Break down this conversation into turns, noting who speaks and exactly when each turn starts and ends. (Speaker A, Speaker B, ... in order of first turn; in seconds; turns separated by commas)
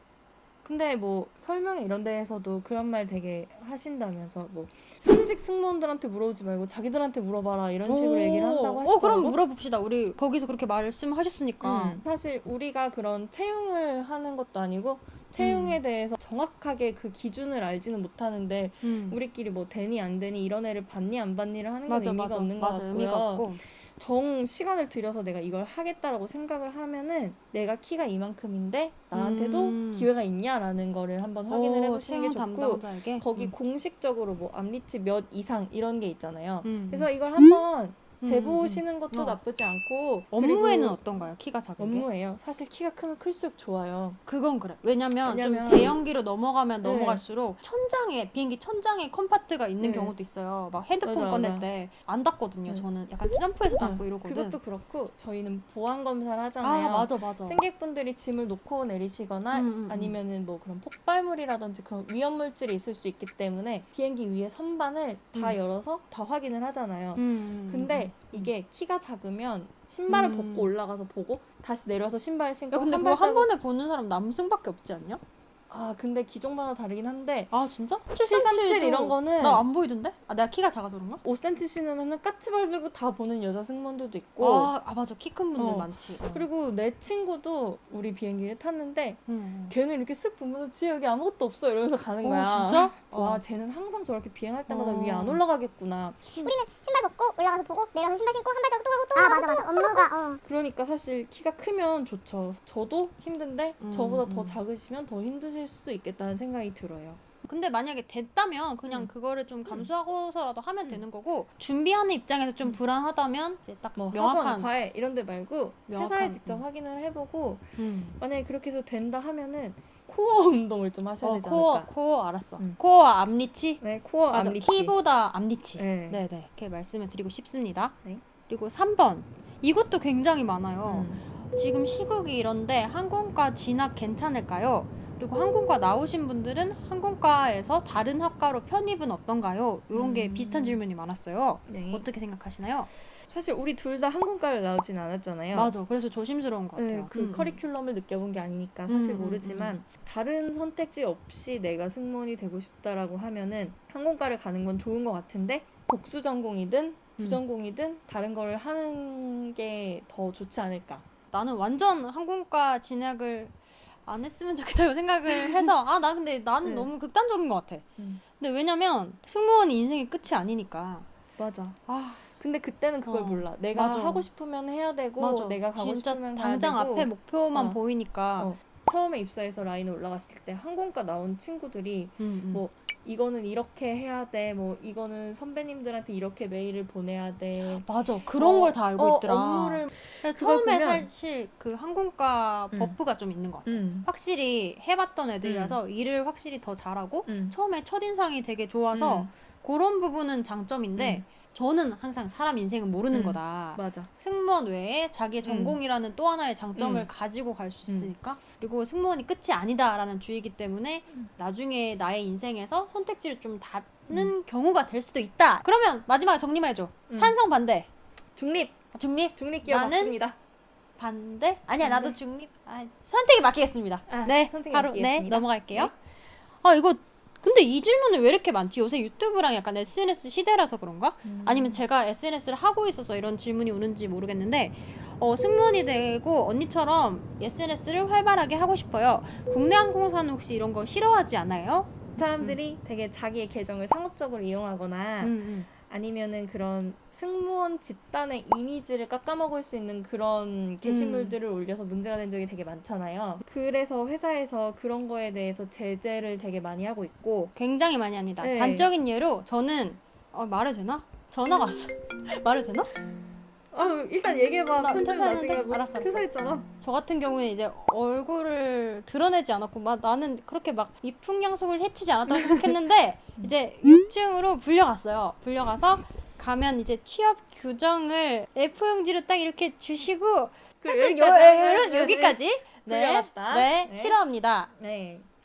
Speaker A: 0.6-9.4, Speaker B: 7.8-12.0, Speaker A: 11.6-41.0, Speaker B: 15.4-15.8, Speaker B: 18.8-19.2, Speaker B: 21.9-23.6, Speaker B: 29.1-30.1, Speaker B: 31.5-33.5, Speaker B: 36.6-37.1, Speaker B: 38.2-39.4, Speaker B: 40.3-42.1, Speaker A: 41.8-44.2, Speaker B: 44.2-54.6, Speaker A: 45.2-46.0, Speaker A: 46.8-47.2, Speaker A: 49.8-50.1, Speaker A: 51.0-51.7, Speaker A: 53.8-73.5, Speaker B: 56.6-57.6, Speaker B: 59.5-60.1, Speaker B: 67.2-68.5, Speaker B: 70.1-70.7, Speaker B: 72.7-75.2, Speaker A: 75.7-77.5, Speaker B: 77.5-81.2, Speaker A: 78.2-79.6, Speaker A: 81.2-84.7, Speaker B: 84.4-86.5, Speaker A: 85.5-96.5, Speaker B: 89.3-89.7, Speaker B: 92.2-93.4, Speaker B: 94.7-95.4, Speaker C: 96.4-100.4, Speaker A: 99.1-107.2, Speaker B: 103.8-104.6, Speaker B: 107.4-114.7, Speaker A: 114.0-117.7, Speaker B: 115.9-116.6, Speaker B: 117.8-118.2, Speaker A: 118.2-121.9, Speaker B: 121.2-128.0, Speaker A: 123.8-124.9, Speaker A: 125.8-126.2, Speaker B: 128.5-142.9, Speaker A: 130.8-131.2, Speaker A: 139.9-140.8, Speaker A: 141.7-142.1, Speaker A: 143.3-145.7, Speaker B: 145.5-147.6, Speaker A: 146.8-161.0, Speaker B: 148.9-149.8, Speaker B: 161.3-167.8, Speaker A: 165.4-165.7, Speaker A: 166.6-166.9, Speaker A: 168.0-168.2, Speaker B: 168.4-171.1, Speaker A: 171.4-171.8, Speaker B: 171.9-172.3, Speaker A: 172.3-177.8, Speaker B: 173.0-174.3, Speaker B: 175.2-178.5, Speaker A: 178.4-187.8, Speaker B: 182.2-182.6, Speaker B: 187.6-217.9, Speaker A: 188.3-191.1, Speaker A: 193.6-194.1, Speaker A: 195.4-195.8, Speaker A: 197.2-197.6, Speaker A: 198.9-199.3, Speaker A: 200.9-201.2, Speaker A: 203.1-204.1, Speaker A: 205.4-205.8, Speaker A: 206.8-207.1, Speaker A: 207.9-208.1, Speaker A: 217.1-217.3, Speaker A: 218.3-218.8, Speaker B: 218.9-220.1, Speaker A: 219.3-220.4, Speaker B: 221.0-225.9, Speaker A: 221.8-222.2, Speaker A: 224.1-225.9, Speaker B: 226.6-242.6, Speaker A: 231.2-231.8, Speaker A: 242.2-257.5, Speaker B: 245.2-245.7, Speaker B: 250.8-251.3, Speaker B: 257.5-262.9, Speaker A: 258.4-258.9, Speaker A: 263.7-266.6, Speaker B: 263.8-284.7, Speaker A: 272.3-272.7, Speaker A: 280.8-284.2, Speaker A: 284.7-285.3